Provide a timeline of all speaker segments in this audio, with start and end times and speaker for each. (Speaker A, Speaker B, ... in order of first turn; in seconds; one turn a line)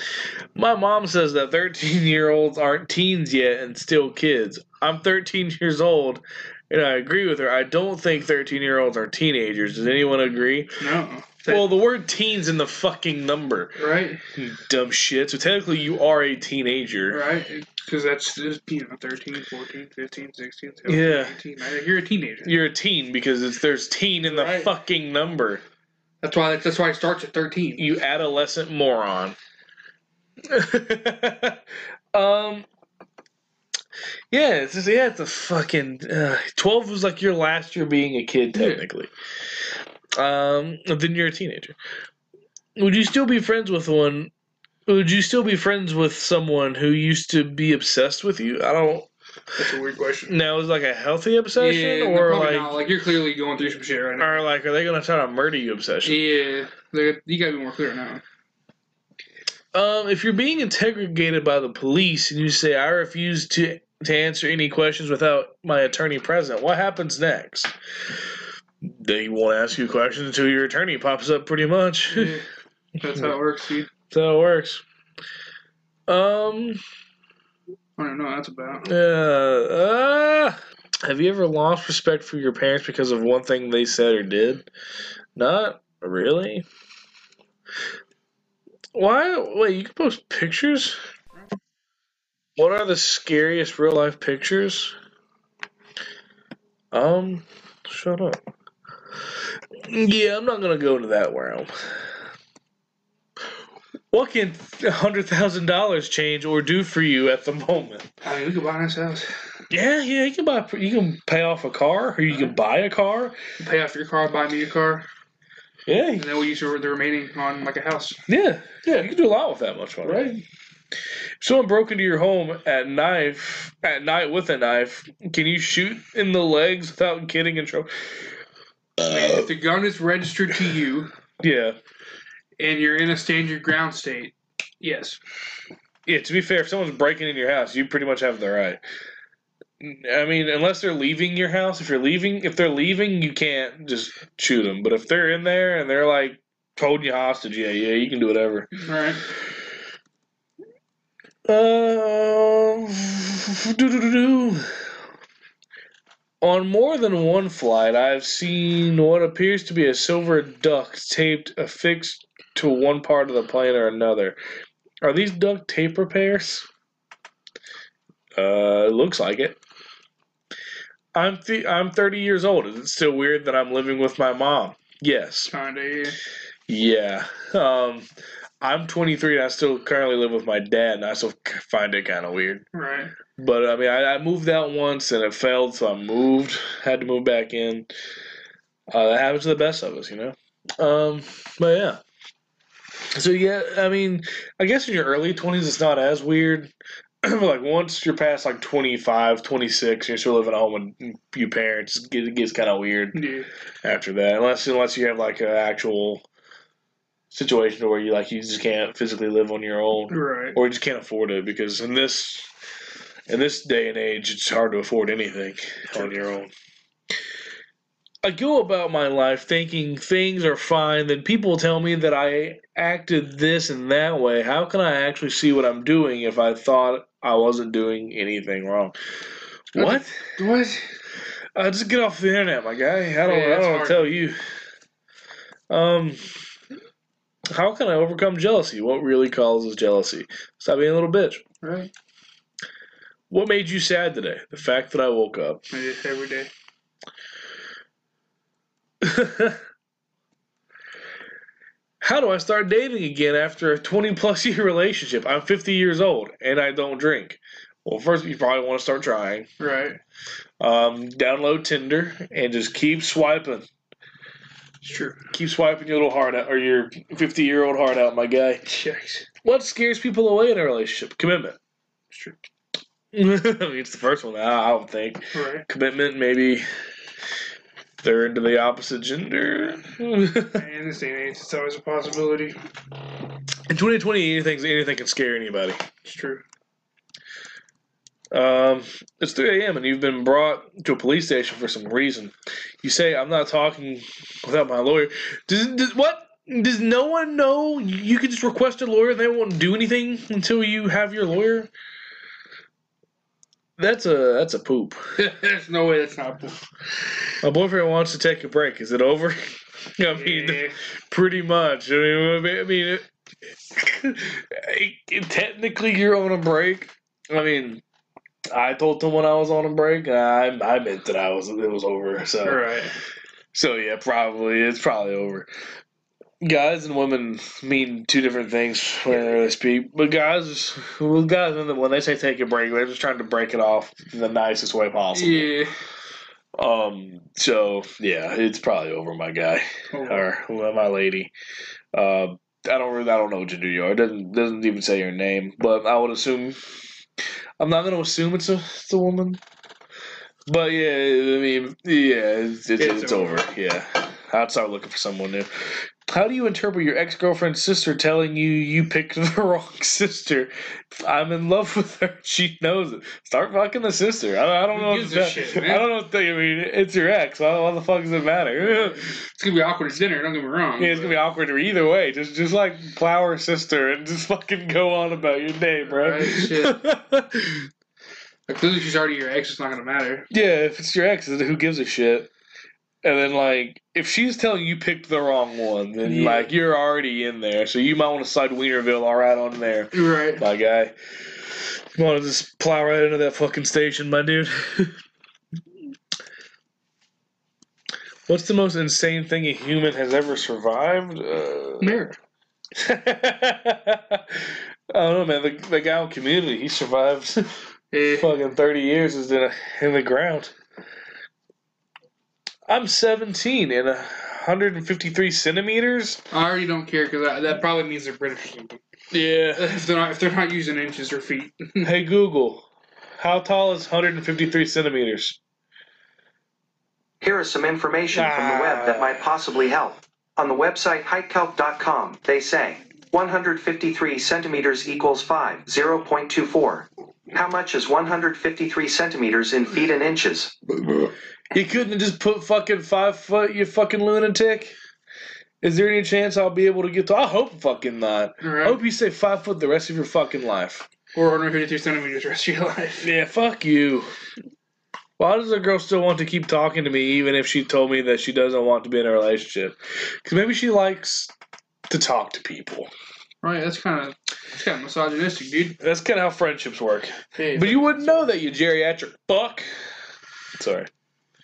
Speaker A: 0.6-10.8
Speaker B: 10.8-11.7
Speaker A: 11.5-13.8
Speaker B: 13.8-14.2
Speaker A: 14.3-17.2
Speaker B: 17.1-22.6
Speaker A: 20.9-21.3
Speaker A: 22.4-25.6
Speaker B: 24.3-24.7
Speaker B: 26.2-27.9
Speaker A: 27.8-29.4
Speaker A: 30.4-32.6
Speaker A: 34.3-39.1
Speaker B: 38.5-38.8
Speaker A: 40.2-41.8
Speaker A: 42.8-44.3
Speaker A: 44.9-49.1
Speaker B: 49.5-50.3
Speaker A: 50.3-52.8
Speaker B: 51.5-54.4
Speaker A: 54.2-56.2
Speaker B: 56.0-58.2
Speaker A: 59.7-67.7
Speaker A: 68.8-72.4
Speaker B: 72.1-72.4
Speaker B: 73.0-73.9
Speaker A: 74.1-74.8
Speaker A: 76.1-76.8
Speaker B: 78.0-78.9
Speaker A: 78.8-84.7
Speaker A: 85.3-86.6
Speaker A: 88.9-91.0
Speaker A: 92.6-94.9
Speaker A: 96.9-98.4
Speaker A: 99.8-102.1
Speaker A: 104.1-108.1
Speaker B: 108.2-109.3
Speaker A: 109.7-113.4
Speaker B: 113.6-115.0
Speaker A: 115.9-116.3
Speaker B: 116.2-118.2
Speaker A: 118.3-120.2
Speaker B: 120.0-120.4
Speaker A: 121.4-128.3
Speaker A: 129.0-129.5
Speaker B: 129.0-131.1
Speaker A: 131.4-131.8
Speaker B: 132.6-135.2
Speaker A: 136.1-138.8
Speaker A: 139.8-148.7
Speaker B: 148.7-149.2
Speaker A: 151.5-154.8
Speaker A: 156.4-164.4
Speaker A: 165.0-166.7
Speaker A: 168.3-169.6
Speaker A: 171.1-175.5
Speaker B: 175.5-176.2
Speaker A: 176.7-178.1
Speaker A: 178.6-182.6
Speaker B: 182.7-183.1
Speaker A: 183.4-187.9
Speaker A: 188.9-192.0
Speaker A: 193.1-196.7
Speaker A: 197.2-203.2
Speaker B: 203.1-203.5
Speaker A: 203.8-206.2
Speaker A: 207.3-212.5
Speaker B: 210.1-210.6
Speaker A: 213.3-216.5
Speaker B: 215.9-216.2
Speaker A: 218.2-228.9
Speaker A: 229.7-230.4
Speaker B: 229.8-230.9
Speaker A: 231.5-234.4
Speaker B: 233.2-234.1
Speaker A: 235.7-236.4
Speaker A: 237.5-241.4
Speaker B: 241.6-241.9
Speaker A: 243.3-245.6
Speaker B: 245.7-246.5
Speaker A: 249.0-249.6
Speaker A: 252.0-259.5
Speaker B: 259.6-260.0
Speaker A: 260.6-263.6
Speaker B: 264.8-265.2
Speaker A: 265.3-268.6
Speaker B: 268.6-269.3
Speaker A: 269.4-271.6
Speaker B: 272.1-272.4
Speaker A: 273.1-276.7
Speaker B: 275.3-275.7
Speaker A: 278.0-280.6
Speaker B: 280.5-282.6
Speaker A: 283.7-285.8
Speaker B: 286.0-286.4
Speaker A: 288.3-301.7
Speaker A: 303.8-305.1
Speaker B: 305.1-306.6
Speaker A: 307.4-313.0
Speaker B: 310.1-310.8
Speaker A: 313.7-317.8
Speaker A: 318.5-322.6
Speaker B: 322.4-322.9
Speaker A: 323.5-325.5
Speaker A: 326.4-335.5
Speaker B: 329.1-329.4
Speaker B: 335.1-335.7
Speaker A: 336.6-341.3
Speaker B: 339.9-340.2
Speaker A: 341.9-346.6
Speaker A: 347.6-349.4
Speaker A: 350.5-369.1
Speaker B: 352.8-353.5
Speaker B: 364.7-365.9
Speaker B: 368.7-371.1
Speaker A: 370.8-377.7
Speaker B: 375.9-376.8
Speaker B: 378.5-380.3
Speaker A: 380.3-382.3
Speaker A: 383.0-395.0
Speaker B: 386.0-386.5
Speaker B: 389.9-390.4
Speaker A: 398.3-402.0
Speaker B: 401.8-402.2
Speaker A: 402.7-407.6
Speaker B: 407.9-408.3
Speaker A: 408.2-410.5
Speaker A: 412.7-416.2
Speaker B: 416.3-418.8
Speaker A: 419.1-419.8
Speaker B: 419.5-421.9
Speaker A: 421.8-422.6
Speaker A: 423.2-425.4
Speaker C: 427.2-440.5
Speaker A: 428.1-429.3
Speaker A: 441.5-444.8
Speaker A: 445.6-450.9
Speaker B: 448.4-448.8
Speaker B: 451.1-453.1
Speaker A: 453.0-454.1
Speaker A: 455.2-461.3
Speaker A: 461.9-462.9
Speaker B: 463.4-465.8
Speaker A: 465.8-469.7
Speaker B: 467.4-468.3
Speaker A: 470.6-470.9